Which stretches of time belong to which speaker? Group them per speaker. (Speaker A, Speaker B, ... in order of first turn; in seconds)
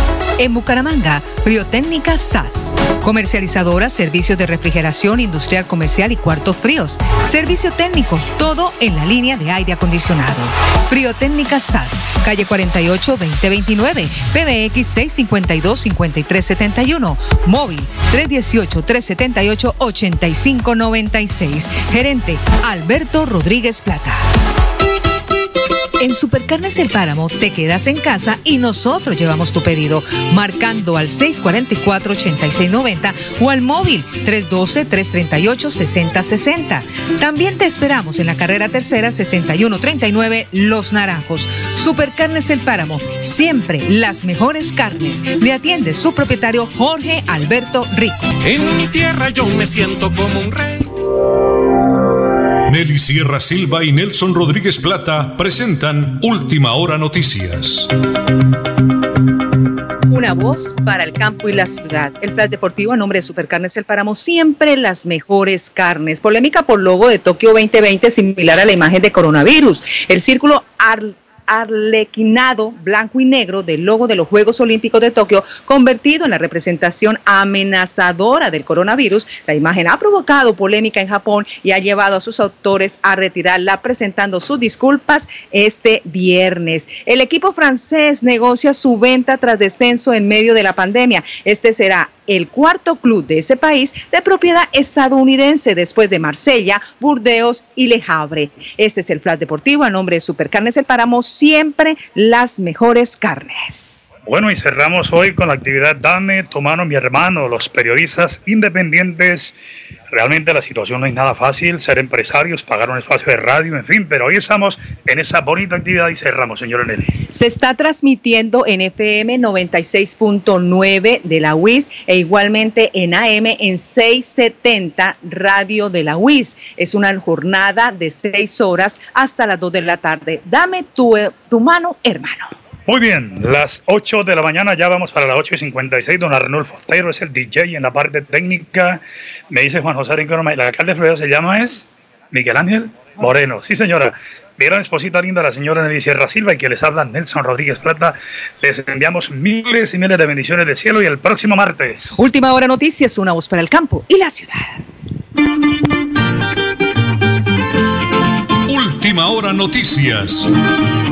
Speaker A: 0.4-24.3, 26.0-48.3, 60.1-104.0, 117.3-132.5, 152.2-154.8
Speaker B: 48.4-50.9
Speaker C: 52.7-57.9, 158.7-160.5
Speaker D: 104.2-109.5, 110.1-117.1, 132.9-152.1